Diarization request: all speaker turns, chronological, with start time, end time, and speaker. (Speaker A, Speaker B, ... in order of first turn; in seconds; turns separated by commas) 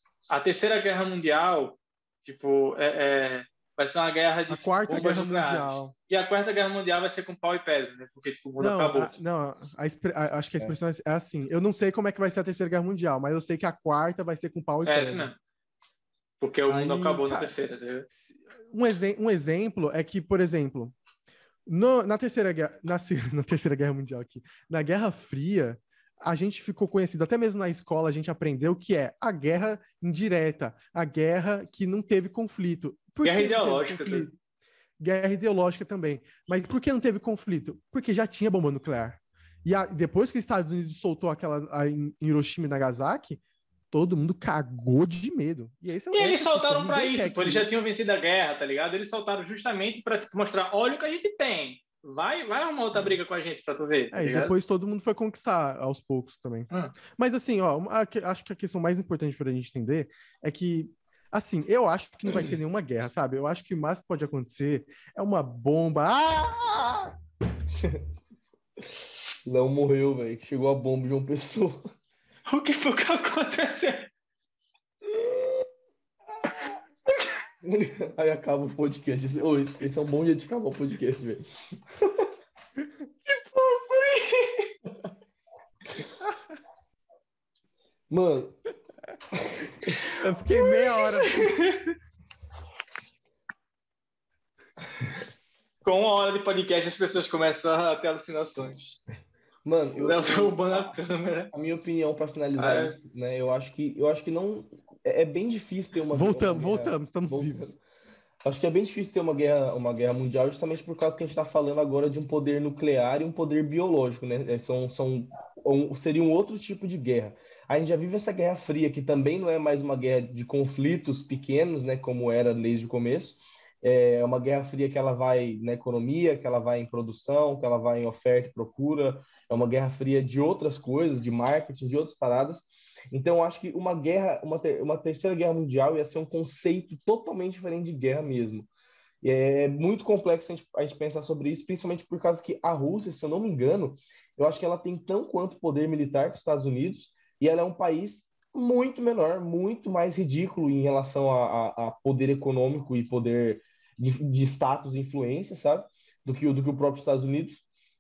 Speaker A: 0.3-9.1, Speaker B: 4.5-5.9, Speaker B: 8.6-15.3, Speaker A: 14.8-15.4, Speaker A: 16.4-18.1, Speaker B: 16.7-17.5, Speaker B: 18.1-20.9, Speaker B: 21.7-34.3, Speaker A: 33.2-34.3, Speaker B: 35.0-43.4, Speaker B: 43.9-47.7, Speaker A: 46.1-54.5, Speaker B: 54.1-67.1, Speaker C: 67.7-68.0, Speaker C: 69.4-71.8, Speaker A: 72.5-74.1, Speaker C: 75.0-75.7, Speaker C: 77.6-82.3, Speaker A: 83.3-84.7, Speaker C: 88.1-88.6, Speaker C: 89.3-90.0, Speaker B: 90.1-91.6, Speaker A: 91.0-91.9, Speaker A: 95.8-99.0, Speaker C: 99.6-101.0, Speaker A: 100.0-101.5, Speaker C: 101.5-107.8, Speaker A: 102.6-102.9, Speaker B: 106.1-107.8, Speaker C: 108.4-138.7, Speaker C: 139.2-157.6